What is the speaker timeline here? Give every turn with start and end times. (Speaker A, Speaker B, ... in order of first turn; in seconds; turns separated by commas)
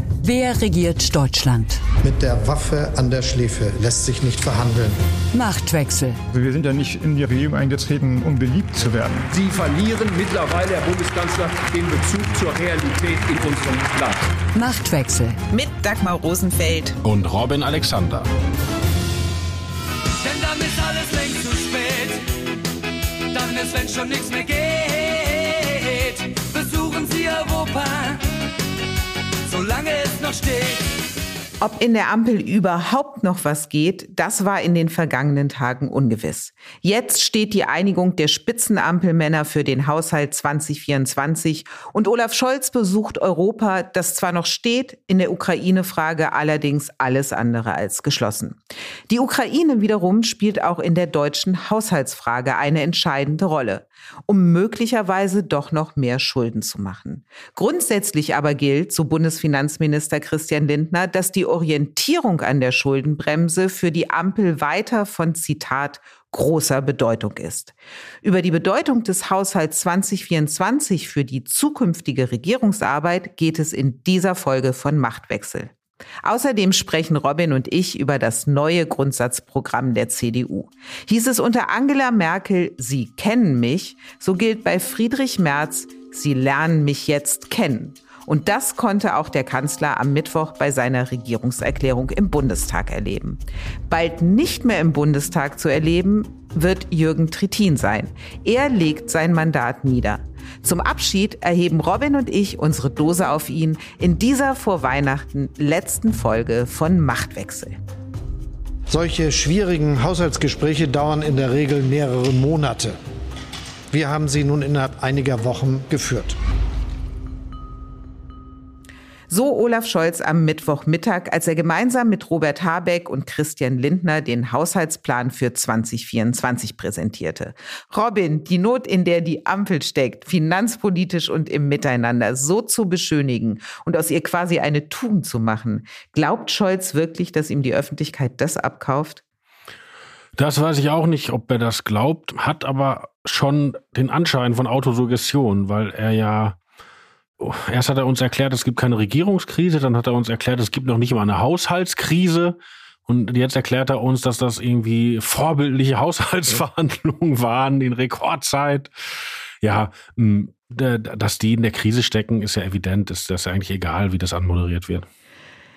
Speaker A: 0.2-1.8, Speaker B: 2.0-5.0, Speaker A: 5.3-6.2, Speaker C: 6.3-9.2, Speaker D: 9.3-14.2, Speaker A: 14.5-15.4, Speaker E: 15.5-17.0, Speaker F: 17.0-18.3, Speaker G: 20.2-22.2, Speaker G: 23.3-28.2, Speaker G: 29.4-30.9, Speaker E: 31.6-48.6, Speaker E: 49.1-75.7, Speaker E: 76.2-107.8, Speaker B: 108.9-113.0, Speaker B: 113.9-116.4, Speaker E: 119.3-139.2, Speaker F: 140.4-146.6, Speaker F: 147.4-158.9, Speaker F: 159.6-165.1